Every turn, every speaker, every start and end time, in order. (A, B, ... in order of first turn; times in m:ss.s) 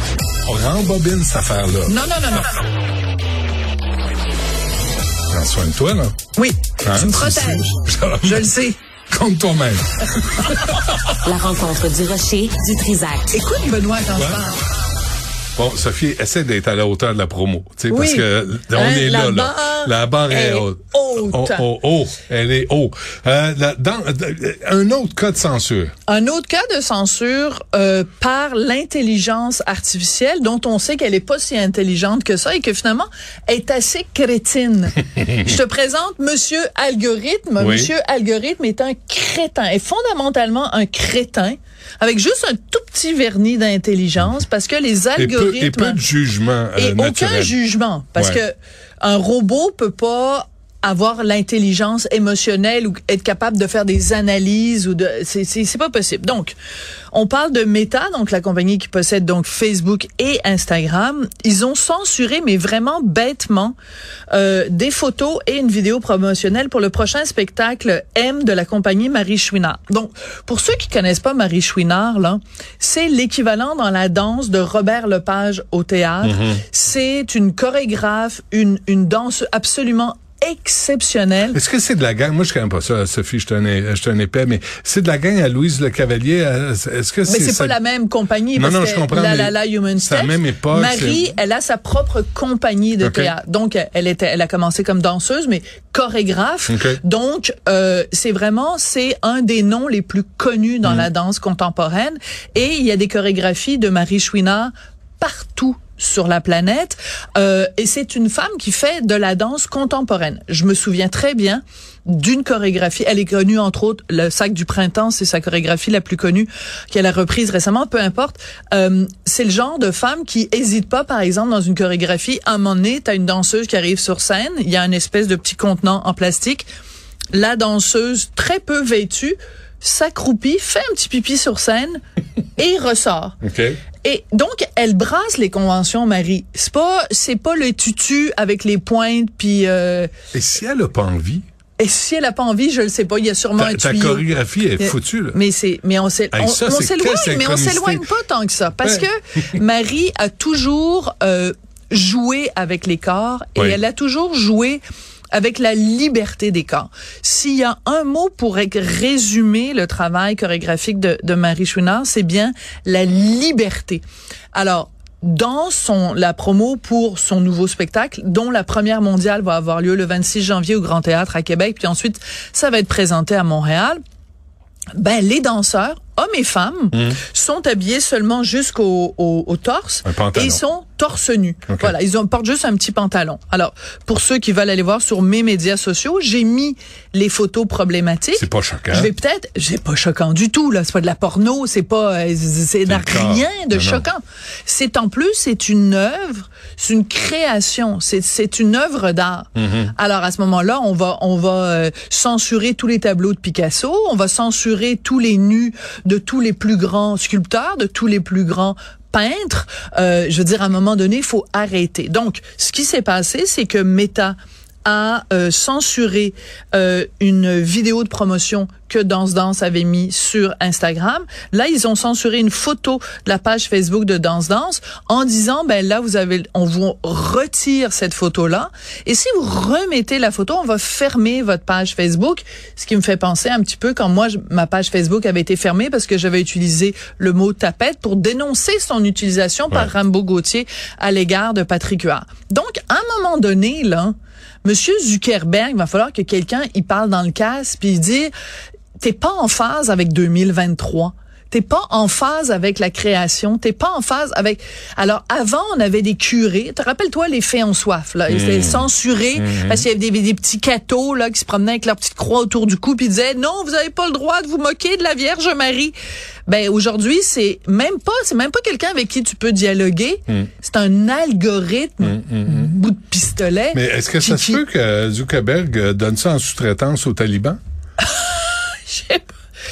0:00.4-0:02.0 A
0:01.9-0:02.5 B
0:05.3-0:06.1 A
0:06.3-0:08.8 B
0:06.8-0:08.5 A
0:09.1-0:11.1 A
0:11.2-0:13.4 C
0:13.3-0:14.6 B
0:14.1-0:14.4 A
0:15.6-0:25.9 A
0:17.9-0:21.7 B
0:26.1-0:46.0 B
0:37.6-0:37.9 A
0:45.2-0:47.6 A
0:46.8-0:56.6 B
0:48.2-0:48.4 A
0:57.1-1:03.7 B
1:04.3-1:21.6 B
1:16.2-1:16.6 A
1:21.5-1:27.8 A
1:27.2-2:06.7 B
1:28.5-1:31.2 A
1:33.0-1:33.3 A
1:36.7-1:37.0 A
2:07.3-2:12.0 B
2:12.6-2:13.4 B
2:13.4-2:13.8 A
2:14.0-2:20.1 B
2:20.3-2:21.4 A
2:21.8-2:24.3 B
2:23.6-2:25.4 A
2:24.8-2:34.8 B
2:26.3-2:28.1 A
2:35.3-2:54.0 B
2:54.9-4:08.3 B
2:56.9-2:57.2 A
3:00.0-3:00.6 A
3:01.7-3:01.9 A
3:08.4-3:09.1 A
3:12.9-3:14.0 A
3:19.6-3:19.9 A
4:09.0-4:25.9 B
4:18.3-4:19.8 A
4:26.5-4:34.6 B
4:32.0-4:32.7 A
4:33.7-4:37.6 A
4:38.0-4:39.3 B